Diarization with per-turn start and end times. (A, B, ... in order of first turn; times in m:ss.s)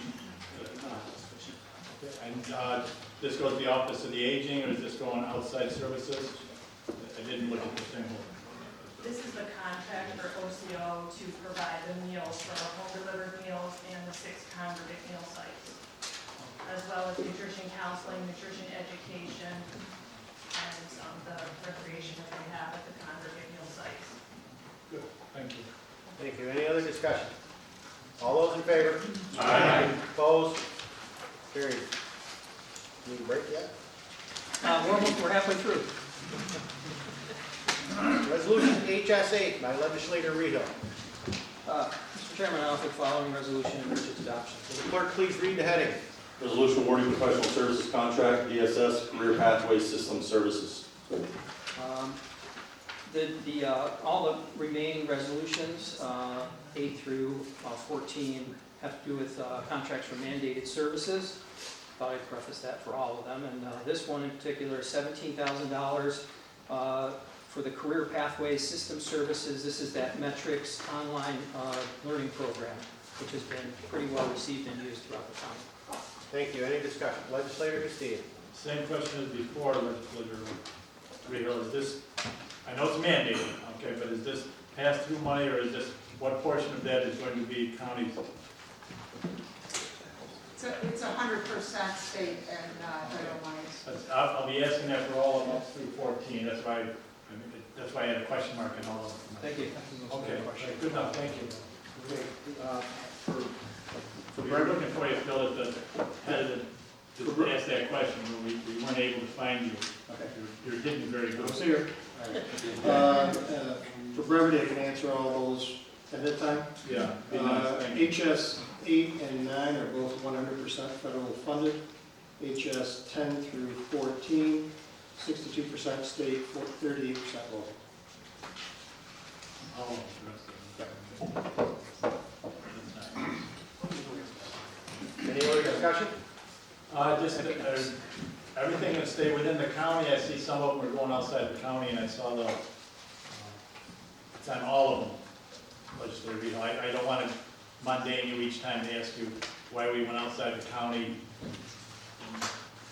0:00.5-0:01.2 A
0:01.9-0:06.4 A
0:07.0-0:08.5 A
0:09.0-0:15.8 B
0:16.6-0:19.8 B
0:20.5-0:24.2 B
0:24.9-0:25.7 A
0:26.2-0:27.3 C
0:28.2-0:30.6 C
0:29.3-0:29.9 A
0:31.5-0:31.9 C
0:33.0-0:33.7 C
0:34.6-0:35.9 D
0:38.2-0:40.8 C
0:41.6-0:44.8 D
0:44.8-0:46.0 C
0:46.4-0:50.8 E
0:51.8-0:52.2 D
0:53.1-1:01.4 D
1:02.0-1:15.7 D
1:16.3-1:18.2 C
1:18.5-1:20.6 A
1:21.2-1:22.0 A
1:22.6-1:28.2 A
1:30.6-1:33.8 F
1:33.1-1:41.6 A
1:39.4-1:39.8 D
1:44.3-1:51.7 A
1:47.2-1:47.5 G
1:51.3-2:01.8 G
1:56.8-1:58.1 A
2:02.4-2:07.7 G
2:09.7-2:11.4 A
2:12.6-2:13.4 A
2:15.2-2:16.2 C
2:16.9-2:18.0 A
2:17.1-2:17.9 D
2:18.5-2:22.6 A
2:23.3-2:23.6 A
2:24.3-2:25.2 A
2:25.9-2:31.2 A